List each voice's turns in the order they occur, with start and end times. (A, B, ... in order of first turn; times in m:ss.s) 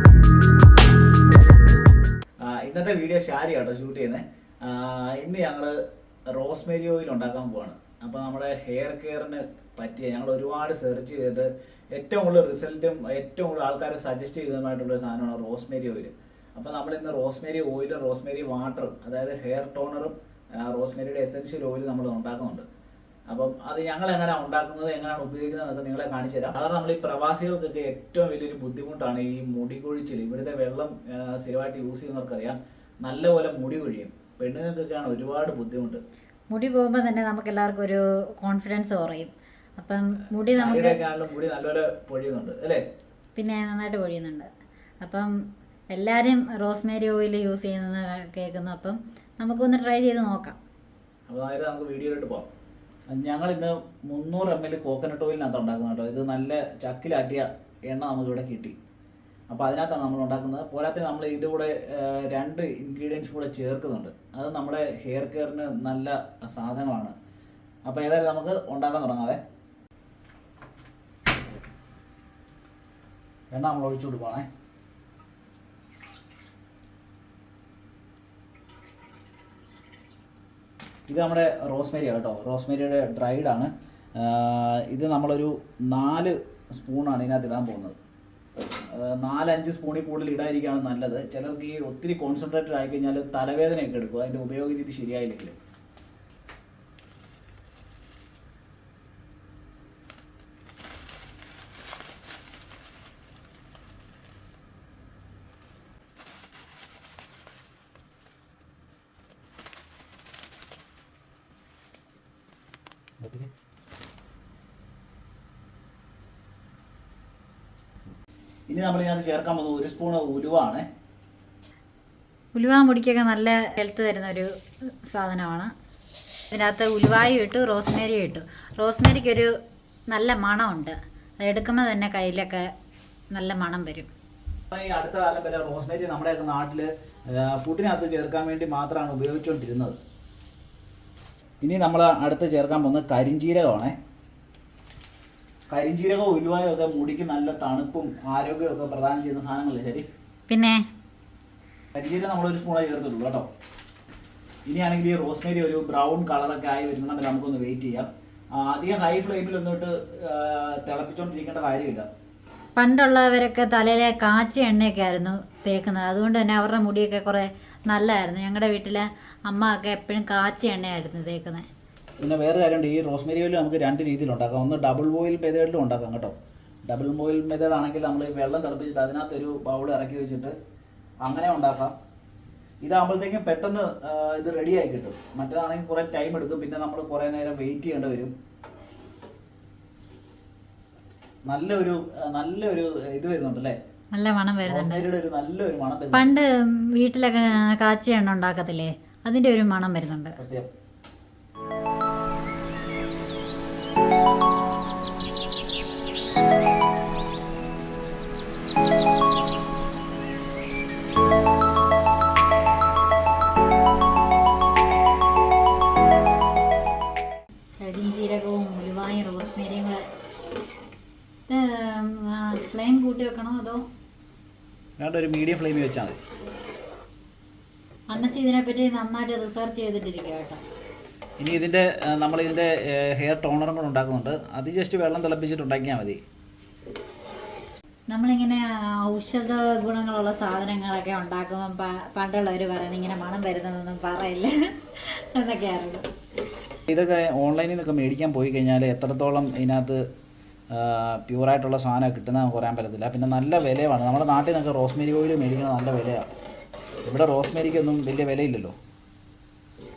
0:02.4-0:05.8 A
0:06.3-0:22.7 A
0:23.3-0:36.0 A
0:36.5-0:41.0 B
0:40.5-0:42.8 A
0:43.4-0:44.5 B
0:45.0-0:45.3 B
0:45.9-0:50.6 B
0:51.3-0:52.5 A
0:53.1-0:58.8 A
0:59.5-1:07.1 A
1:07.8-1:09.4 A
1:13.5-1:14.5 A
1:21.1-1:28.0 A
1:28.9-1:35.6 A
1:53.2-1:53.5 A
1:58.7-2:00.9 A
2:02.6-2:04.5 B
2:05.0-2:05.7 B
2:06.5-2:09.5 B
2:10.1-2:12.7 B
2:13.3-2:14.1 B
2:14.7-2:20.0 A
2:21.6-2:24.0 A
2:25.7-2:30.1 A
2:30.5-2:30.8 B
2:32.0-2:33.5 A
2:34.7-2:42.1 A
2:42.8-2:51.7 B
2:52.2-3:00.6 A
3:01.2-3:01.9 A
3:02.8-3:08.3 A
3:11.5-3:13.8 A
3:14.1-3:15.1 B
3:14.6-3:16.3 A
3:16.1-3:20.4 B
3:20.4-3:20.7 A
3:37.8-3:40.0 B
3:41.5-3:43.9 B
3:45.0-3:46.2 A
3:48.1-3:50.6 B
3:51.4-3:56.2 A
3:58.1-4:06.1 B
4:06.9-4:10.0 A
4:10.7-4:16.2 A
4:17.1-4:18.8 A